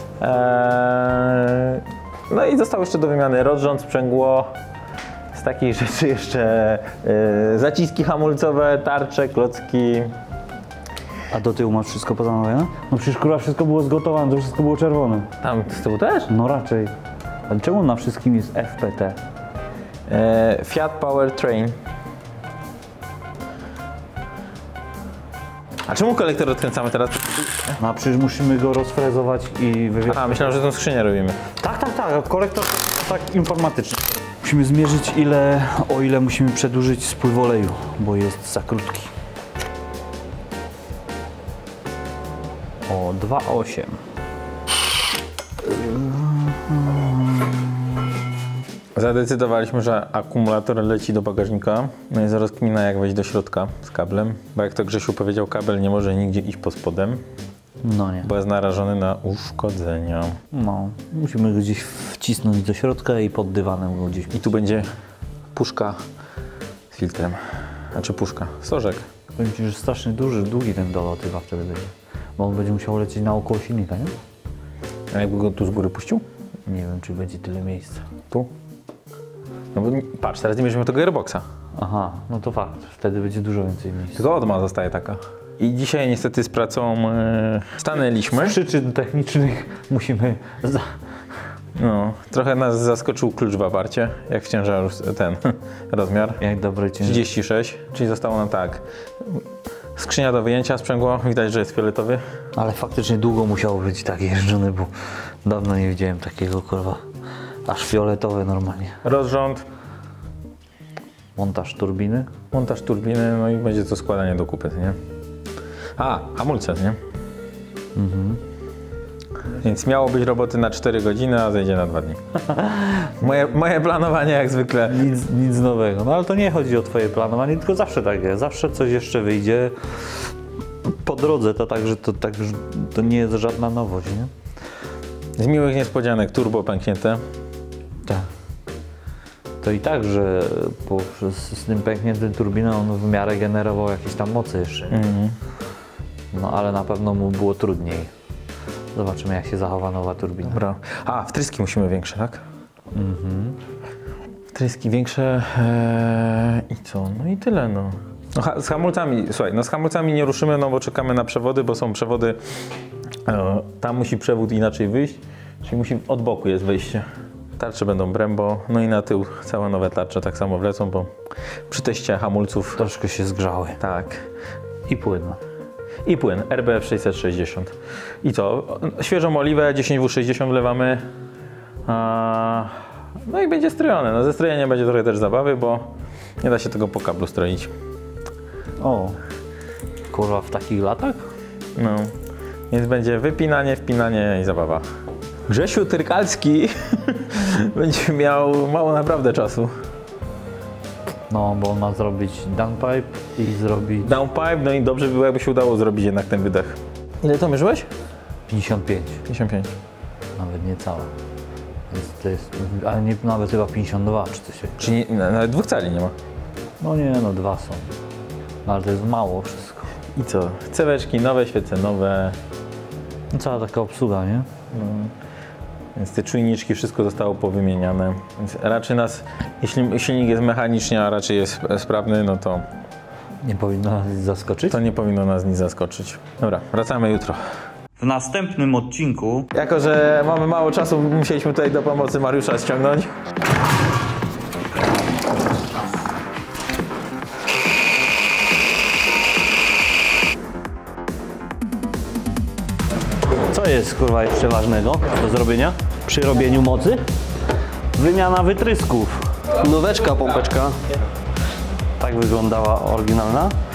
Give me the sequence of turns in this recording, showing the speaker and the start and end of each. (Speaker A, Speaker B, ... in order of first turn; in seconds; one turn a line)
Speaker A: 0.2-4.5
Speaker A: 5.3-10.1
Speaker B: 11.3-15.3
Speaker A: 15.4-16.3
Speaker B: 16.3-16.9
Speaker B: 17.5-19.2
Speaker A: 20.1-21.7
Speaker A: 25.9-27.7
Speaker B: 27.8-30.6
Speaker A: 30.1-31.4
Speaker B: 31.6-39.1
Speaker B: 42.9-44.0
Speaker B: 45.6-48.0
Speaker A: 48.9-57.2
Speaker B: 57.8-58.3
Speaker A: 58.2-60.4
Speaker B: 60.5-64.4
Speaker A: 64.3-64.9
Speaker A: 65.5-66.0
Speaker A: 66.9-69.0
Speaker B: 69.3-74.1
Speaker A: 75.1-76.2
Speaker B: 76.7-78.0
Speaker A: 79.7-81.4
Speaker B: 81.8-84.2
Speaker A: 84.1-88.6
Speaker B: 88.3-90.9
Speaker A: 91.8-96.4
Speaker B: 96.4-97.2
Speaker A: 97.0-99.4
Speaker A: 100.0-102.2
Speaker B: 102.5-104.9
Speaker B: 105.4-107.0
Speaker B: 107.7-109.0
Speaker A: 109.0-109.6
Speaker B: 111.3-112.3
Speaker A: 112.5-115.0
Speaker A: 116.0-117.0
Speaker B: 118.0-118.4
Speaker A: 119.5-125.1
Speaker B: 124.8-129.7
Speaker B: 130.8-134.3
Speaker A: 135.4-137.2
Speaker B: 139.6-145.0
Speaker A: 144.9-145.3
Speaker B: 146.3-148.1
Speaker B: 148.9-150.6
Speaker A: 150.5-152.4
Speaker B: 152.9-153.6
Speaker A: 154.5-162.4
Speaker A: 163.2-167.0
Speaker A: 167.6-171.1
Speaker A: 171.7-172.8
Speaker B: 172.8-173.8
Speaker A: 173.8-174.3
Speaker B: 174.9-175.4
Speaker A: 176.0-181.0
Speaker A: 181.8-187.7
Speaker B: 188.8-189.2
Speaker B: 190.1-191.2
Speaker A: 191.8-192.1
Speaker A: 192.7-194.8
Speaker A: 195.5-199.7
Speaker B: 201.3-204.2
Speaker A: 204.0-207.9
Speaker B: 208.5-209.2
Speaker A: 209.2-209.7
Speaker B: 210.3-211.1
Speaker B: 211.9-214.8
Speaker A: 214.8-216.1
Speaker B: 216.8-217.9
Speaker B: 218.6-219.9
Speaker A: 220.2-222.4
Speaker B: 223.3-224.5
Speaker A: 224.7-225.1
Speaker A: 225.9-232.6
Speaker B: 233.4-234.8
Speaker A: 234.7-237.4
Speaker B: 238.0-239.5
Speaker A: 239.5-243.1
Speaker B: 253.3-257.0
Speaker B: 257.9-260.8
Speaker B: 262.0-263.5